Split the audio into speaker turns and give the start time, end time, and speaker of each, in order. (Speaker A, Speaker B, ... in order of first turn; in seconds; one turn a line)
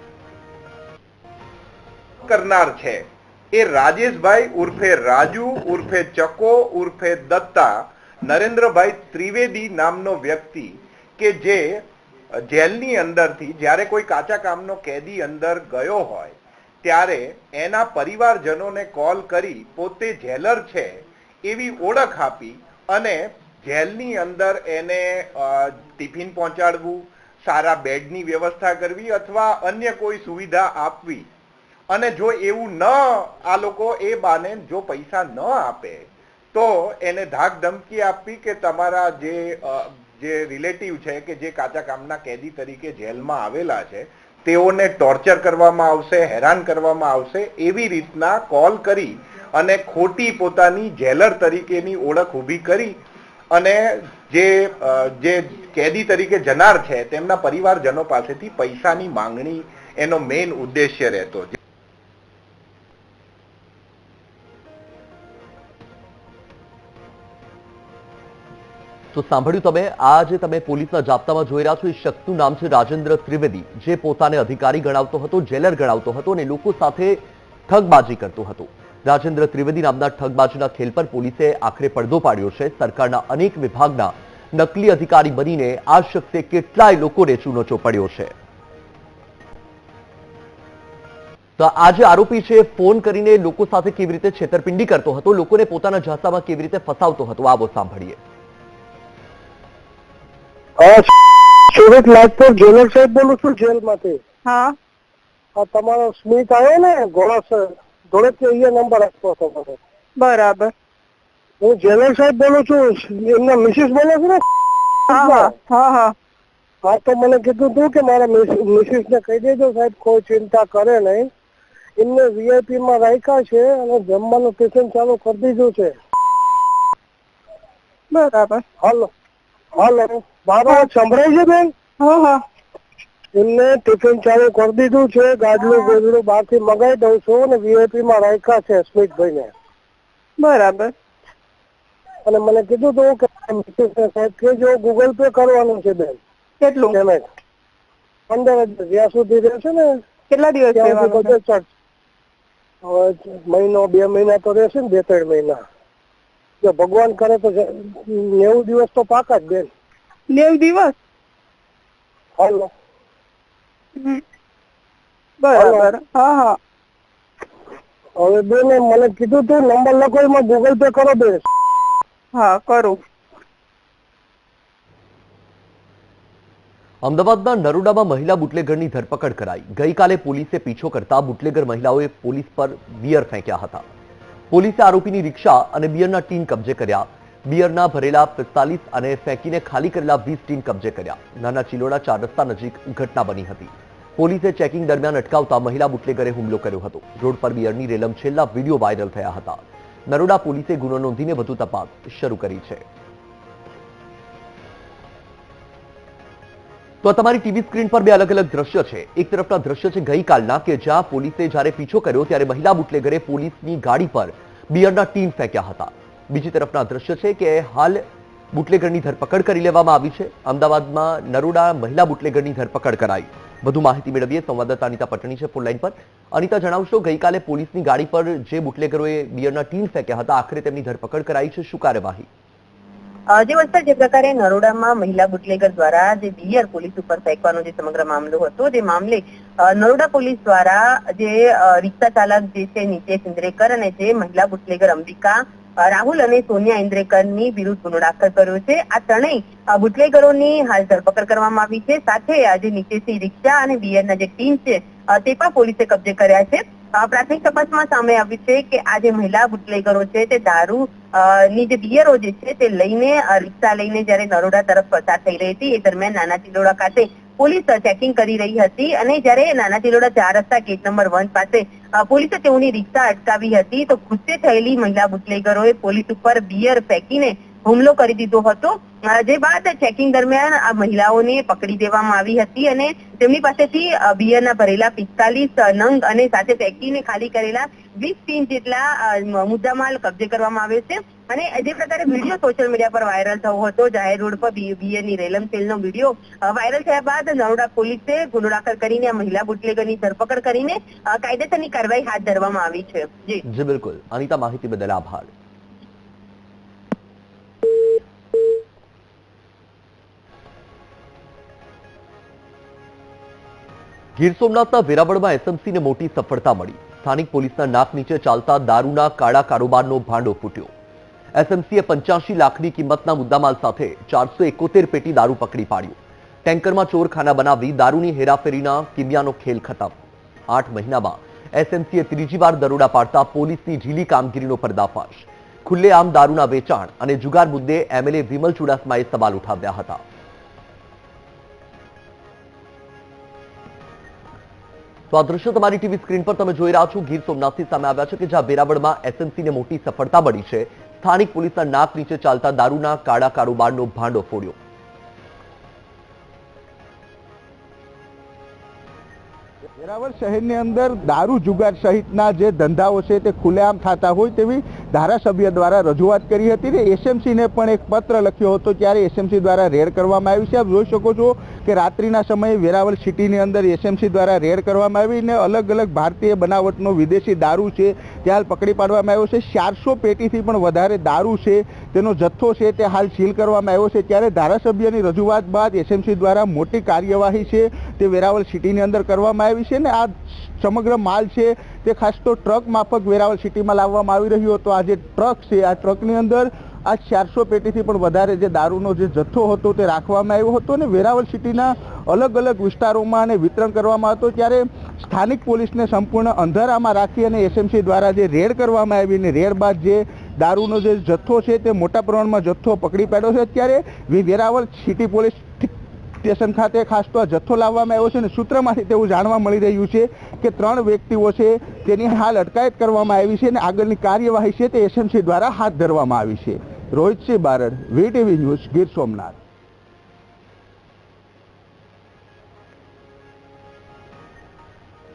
Speaker A: 2.2-31.3
Speaker A: 31.9-53.0
Speaker A: 53.5-61.5
Speaker B: 69.1-88.3
Speaker B: 91.6-98.2
Speaker C: 100.8-104.2
Speaker D: 104.4-104.7
Speaker C: 105.6-109.8
Speaker D: 110.2-110.7
Speaker C: 111.6-114.4
Speaker D: 115.1-116.1
Speaker C: 115.1-115.5
Speaker C: 116.8-121.3
Speaker C: 122.0-126.0
Speaker D: 128.1-128.6
Speaker C: 128.8-129.1
Speaker C: 129.7-131.7
Speaker D: 132.0-132.4
Speaker C: 133.3-139.5
Speaker D: 140.4-140.9
Speaker C: 142.2-146.2
Speaker D: 146.6-147.0
Speaker C: 146.9-147.2
Speaker C: 148.3-150.0
Speaker D: 150.3-151.3
Speaker C: 150.7-151.7
Speaker C: 152.8-155.6
Speaker C: 156.6-159.7
Speaker D: 160.3-160.9
Speaker C: 162.4-162.7
Speaker D: 165.4-166.6
Speaker C: 165.5-165.9
Speaker C: 168.2-171.5
Speaker D: 172.3-173.0
Speaker B: 177.0-183.8
Speaker B: 184.5-202.8
Speaker B: 207.0-232.3
Speaker E: 233.3-303.4
Speaker B: 303.4-305.3
Speaker B: 314.2-320.7
Speaker B: 321.3-340.0
Speaker B: 345.1-354.6
Speaker F: 359.8-429.4